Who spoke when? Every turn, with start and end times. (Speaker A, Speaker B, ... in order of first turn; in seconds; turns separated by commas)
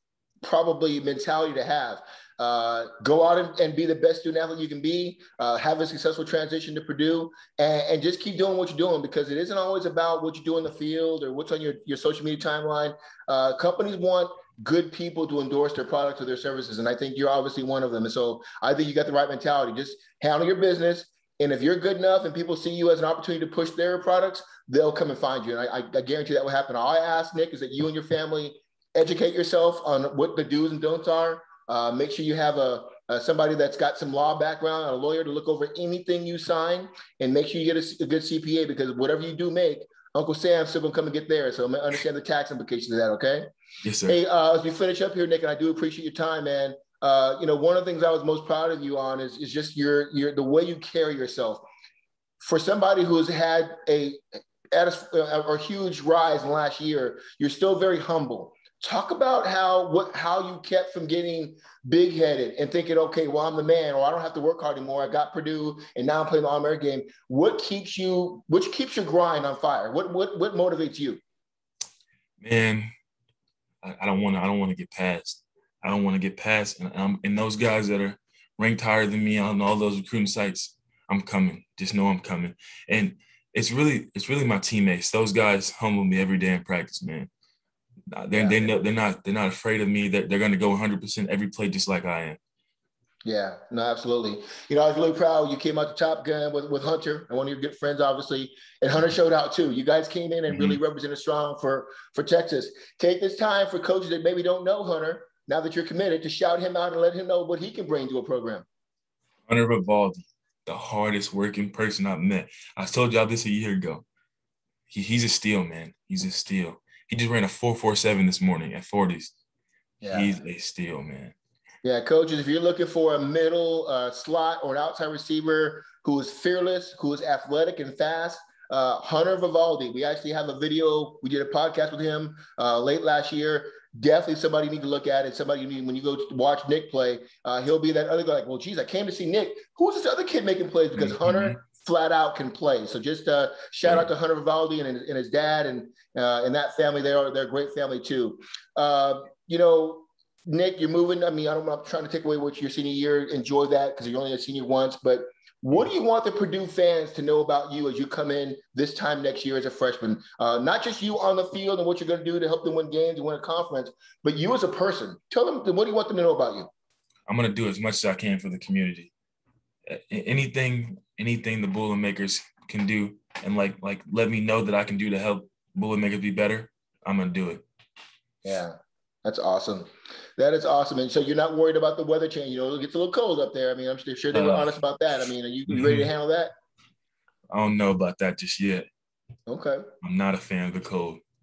Speaker A: 0.4-43.5, Speaker B: 43.8-44.2, Speaker A: 44.1-51.6, Speaker A: 52.4-71.2, Speaker B: 72.4-72.9, Speaker B: 73.8-87.3, Speaker B: 88.1-92.4, Speaker A: 88.3-88.7, Speaker A: 93.2-108.7, Speaker B: 100.5-100.8, Speaker B: 109.5-114.0, Speaker B: 114.9-119.3, Speaker A: 120.0-120.3, Speaker B: 120.0-121.3, Speaker A: 121.8-166.7, Speaker B: 140.9-141.6, Speaker B: 167.3-169.1, Speaker B: 169.9-177.6, Speaker A: 178.4-186.5, Speaker B: 184.3-184.8, Speaker B: 185.7-186.1, Speaker B: 187.5-188.8, Speaker A: 189.5-189.8, Speaker B: 190.0-191.2